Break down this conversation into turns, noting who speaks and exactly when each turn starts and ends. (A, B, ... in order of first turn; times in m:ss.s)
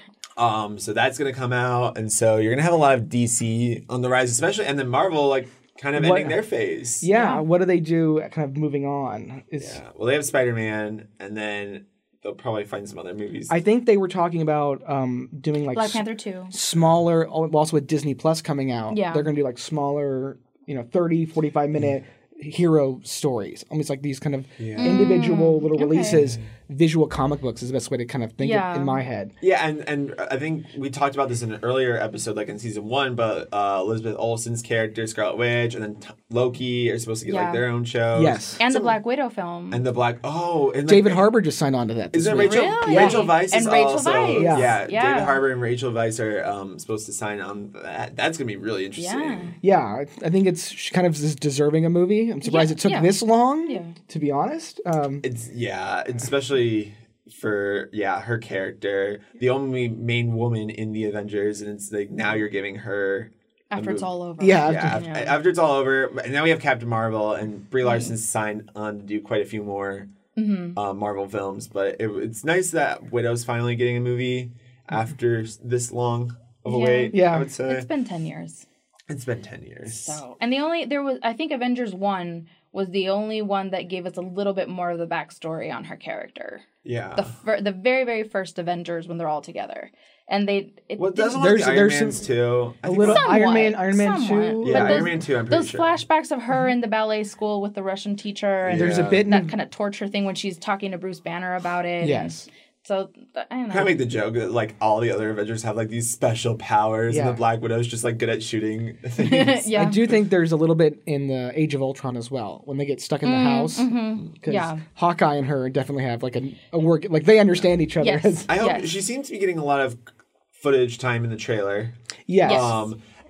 0:00.4-0:07.1 A
0:06.0-0:06.4 B
0:07.0-0:09.8 B
0:07.1-0:07.4 C
0:09.6-0:13.6 A
0:13.5-0:29.3 B
0:15.7-0:16.5 C
0:18.9-0:19.3 C
0:24.6-0:25.1 A
0:24.8-0:26.2 C
0:26.0-0:26.4 A
0:28.4-0:29.0 C
0:29.4-0:39.0 A
0:37.2-0:37.6 C
0:38.1-0:38.6 B
0:38.6-0:39.8 C
0:39.7-0:41.3 A
0:40.9-0:43.3 B
0:42.1-0:49.5 A
0:42.4-0:45.4 C
0:44.4-0:44.8 B
0:49.0-0:49.6 C
0:49.6-0:55.2 B
0:52.4-0:54.0 C
0:55.2-1:04.1 A
1:03.7-1:05.4 C
1:04.4-1:05.0 B
1:04.6-1:10.1 A
1:07.8-1:08.1 C
1:10.4-1:10.8 C
1:10.7-1:17.9 A
1:16.7-1:18.6 C
1:17.1-1:17.5 B
1:19.1-1:20.2 A
1:19.8-1:31.4 C
1:26.8-1:27.3 A
1:31.0-1:33.3 A
1:31.4-1:32.2 B
1:32.8-1:35.2 B
1:33.0-1:43.9 C
1:34.6-1:36.0 A
1:38.6-1:39.3 A
1:38.7-1:39.5 B
1:42.0-1:42.5 B
1:43.7-1:49.8 A
1:47.1-1:47.4 B
1:49.2-1:50.1 C
1:49.7-1:58.5 B
1:53.2-1:54.8 C
1:58.0-1:58.9 C
1:58.5-2:00.0 A
2:00.5-2:03.0 A
2:02.3-2:02.7 B
2:02.4-2:02.8 C